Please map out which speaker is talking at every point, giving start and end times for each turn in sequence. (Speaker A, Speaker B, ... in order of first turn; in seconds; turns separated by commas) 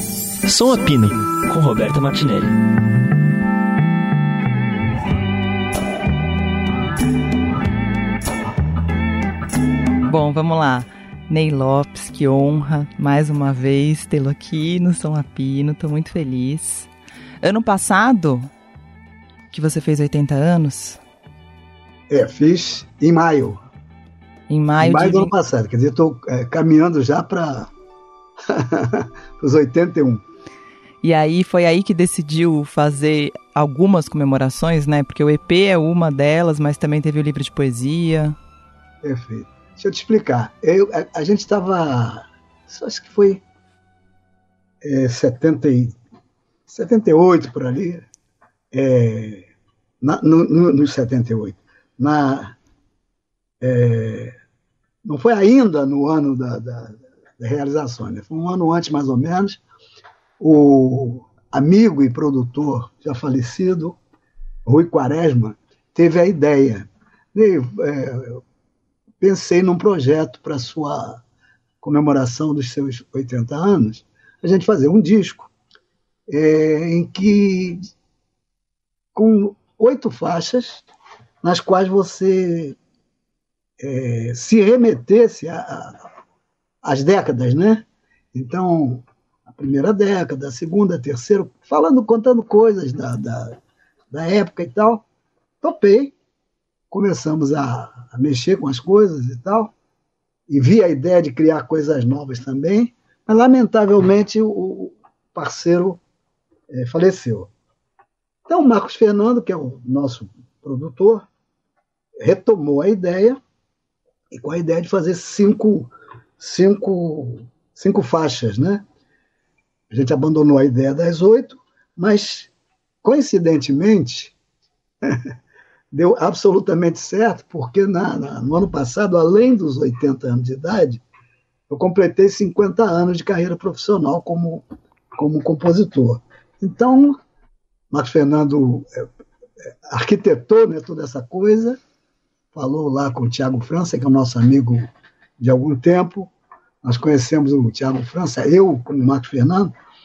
Speaker A: 0.5-2.5, Speaker B: 10.1-16.9, Speaker B: 17.4-18.5, Speaker B: 19.5-21.0, Speaker C: 22.1-23.6, Speaker B: 24.5-25.3, Speaker C: 24.8-27.7, Speaker C: 28.5-30.2, Speaker B: 31.0-38.4, Speaker C: 39.0-43.4, Speaker C: 44.8-46.0, Speaker C: 46.7-48.1, Speaker C: 48.7-49.5, Speaker C: 50.0-52.6, Speaker C: 53.6-54.3, Speaker C: 55.0-59.6, Speaker C: 60.4-64.0, Speaker C: 64.7-68.4, Speaker C: 69.2-71.2, Speaker C: 71.8-75.5, Speaker C: 76.3-77.8, Speaker C: 79.2-80.8, Speaker C: 81.4-82.8, Speaker C: 83.8-86.0, Speaker C: 86.8-93.6, Speaker C: 94.1-95.0, Speaker C: 95.6-96.1, Speaker C: 96.9-99.7, Speaker C: 100.5-106.0, Speaker C: 106.7-107.5, Speaker C: 108.5-111.2, Speaker C: 112.2-113.4, Speaker C: 114.3-118.8, Speaker C: 119.9-122.5, Speaker C: 123.0-124.3, Speaker C: 125.9-131.0, Speaker C: 131.7-137.2, Speaker C: 137.9-139.1, Speaker C: 139.9-141.8, Speaker C: 142.5-144.8, Speaker C: 145.4-146.3, Speaker C: 146.8-149.7